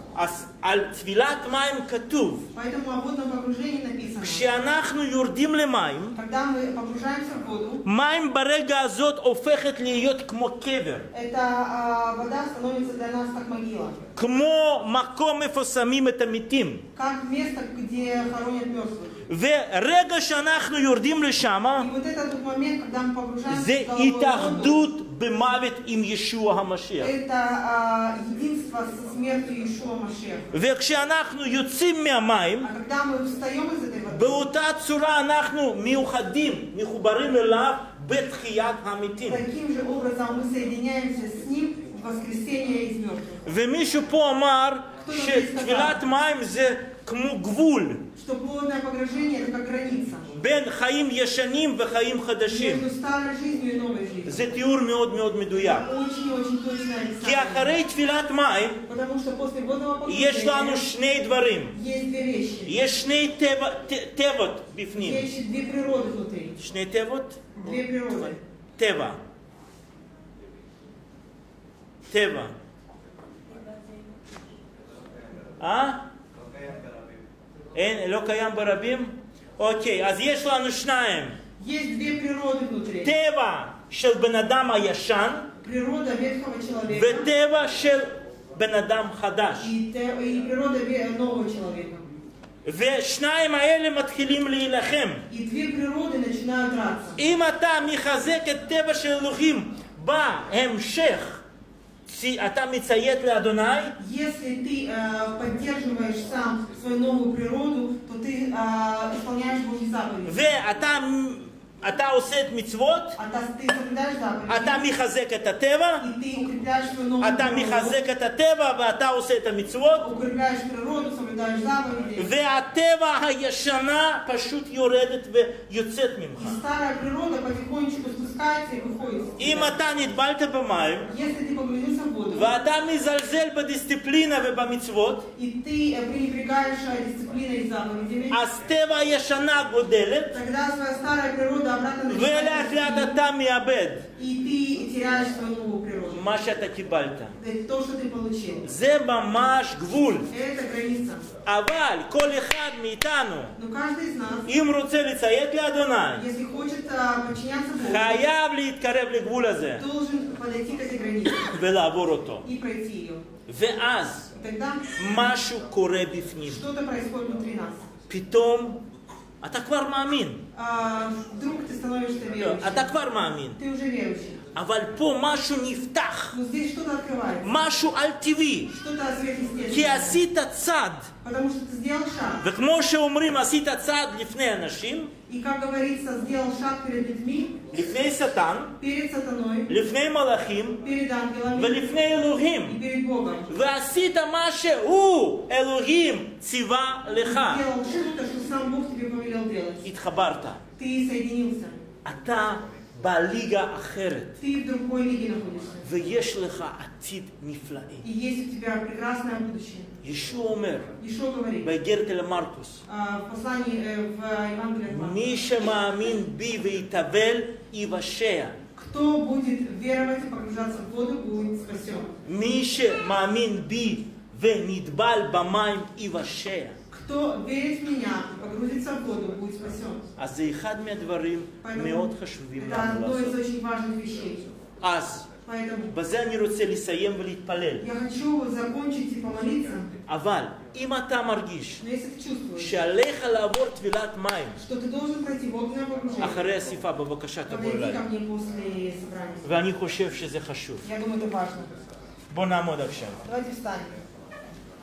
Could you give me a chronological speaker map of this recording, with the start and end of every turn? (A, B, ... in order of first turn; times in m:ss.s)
0:00.1-0:02.5 A
0:02.5-0:04.4 B
0:04.2-0:06.2 A
0:06.1-0:07.8 B
0:07.8-0:11.1 A
0:11.1-0:14.0 B
0:14.2-0:16.8 A
0:16.9-0:19.2 B
0:19.3-0:21.9 A
0:21.8-0:24.8 B
0:23.5-0:27.1 A
0:27.0-0:30.5 B
0:30.5-0:32.7 A
0:32.6-0:34.4 B
0:34.1-0:39.4 A
0:39.2-0:43.4 B
0:43.4-0:48.0 A
0:45.0-0:46.0 B
0:48.2-0:50.3 B
0:50.3-0:52.9 A
0:52.5-0:54.5 B
0:54.2-0:55.8 A
0:55.6-0:57.7 B
0:57.2-0:58.8 A
0:58.9-1:00.8 B
1:00.0-1:01.8 A
1:01.7-1:02.8 B
1:02.6-1:05.3 A
1:04.9-1:06.6 B
1:06.6-1:07.6 A
1:07.6-1:08.4 B
1:08.1-1:09.2 A
1:12.1-1:12.5 A
1:15.6-1:16.0 A
1:17.7-1:21.4 A
1:21.6-1:23.1 B
1:23.0-1:25.5 A
1:25.6-1:27.3 B
1:26.9-1:29.7 A
1:29.6-1:32.0 B
1:32.6-1:35.2 A
1:35.3-1:37.2 B
1:37.2-1:41.4 A
1:42.0-1:44.0 A
1:44.0-1:50.4 B
1:50.2-1:53.2 A
1:53.2-1:54.8 B
1:54.5-1:56.0 A
1:56.0-1:58.0 B
1:57.2-2:00.0 A
2:00.0-2:02.3 B
2:02.2-2:06.6 A
2:06.4-2:09.8 B
2:09.4-2:11.1 A
2:11.1-2:12.5 B
2:12.3-2:15.3 A
2:15.3-2:18.4 B
2:18.3-2:20.4 A
2:20.3-2:23.2 B
2:22.1-2:24.1 A
2:24.2-2:26.3 B
2:26.1-2:27.4 A
2:27.4-2:28.6 B
2:28.6-2:30.3 A
2:30.3-2:31.3 B
2:31.4-2:33.5 A
2:33.6-2:34.5 B
2:34.4-2:36.2 A
2:36.2-2:38.3 B
2:37.8-2:39.8 A
2:39.8-2:41.5 B
2:41.4-2:42.4 A
2:42.4-2:43.2 B
2:43.5-2:44.3 A
2:44.4-2:45.0 B
2:44.9-2:46.6 A
2:46.4-2:47.8 B
2:48.1-2:48.8 A
2:49.4-2:50.4 A
2:50.5-2:52.9 B
2:52.4-2:53.6 A
2:53.6-2:54.4 B
2:54.5-2:56.3 A
2:56.3-2:57.6 B
2:57.4-2:58.7 A
2:58.7-3:00.2 B
2:59.7-3:01.1 A
3:01.2-3:02.4 B
3:02.4-3:05.1 A
3:05.2-3:07.6 B
3:07.7-3:08.7 A
3:08.8-3:09.8 B
3:09.7-3:10.8 A
3:10.8-3:11.9 B
3:11.5-3:12.8 A
3:12.6-3:13.5 B
3:13.5-3:17.6 A
3:17.2-3:19.8 B
3:19.8-3:20.6 A
3:20.8-3:21.8 B
3:22.0-3:24.4 A
3:24.4-3:25.9 B
3:25.8-3:28.0 A
3:28.0-3:29.9 B
3:30.0-3:30.9 A
3:31.0-3:31.7 B
3:31.6-3:32.8 A
3:32.9-3:35.4 B
3:34.9-3:38.6 A
3:38.8-3:42.1 B
3:42.2-3:46.8 A
3:46.9-3:50.1 B
3:50.2-3:53.4 A
3:51.6-3:54.4 B
3:54.8-3:55.3 A
3:55.4-3:55.9 B
3:55.9-3:57.8 A
3:57.8-3:59.9 B
4:00.1-4:01.8 A
4:01.8-4:02.7 B
4:02.6-4:04.6 A
4:04.6-4:06.5 B
4:06.2-4:08.0 A
4:07.5-4:09.4 B
4:09.4-4:10.8 A
4:10.8-4:11.7 B
4:12.3-4:13.2 A
4:13.2-4:13.9 B